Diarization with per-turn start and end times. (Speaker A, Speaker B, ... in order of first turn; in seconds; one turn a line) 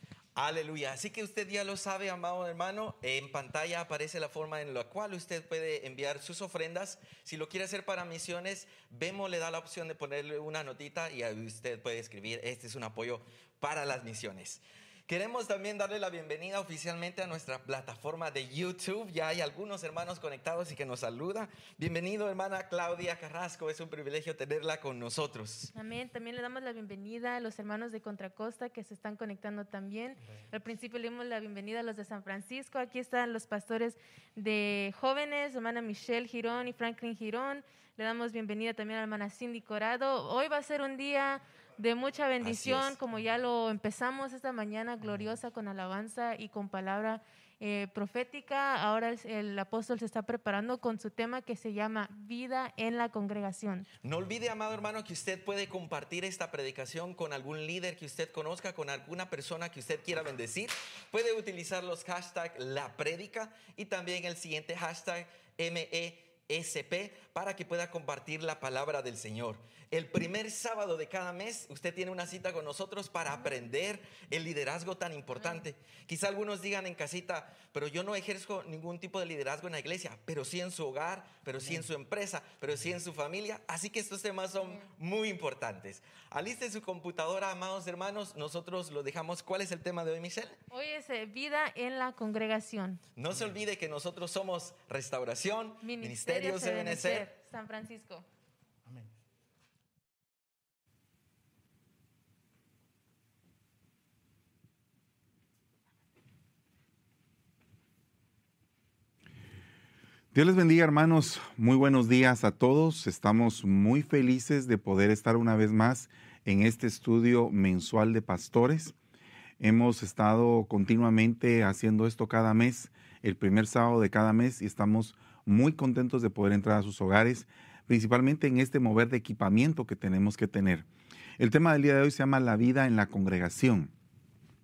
Speaker A: 0.4-25.7
Speaker B: 25.7-53.9
Speaker A: 42.4-43.0
Speaker A: 54.0-90.6
Speaker B: 90.7-93.0
Speaker A: 93.2-97.3
Speaker B: 95.8-98.3
Speaker C: 110.3-119.0
Speaker C: 119.6-130.9
Speaker C: 131.4-133.9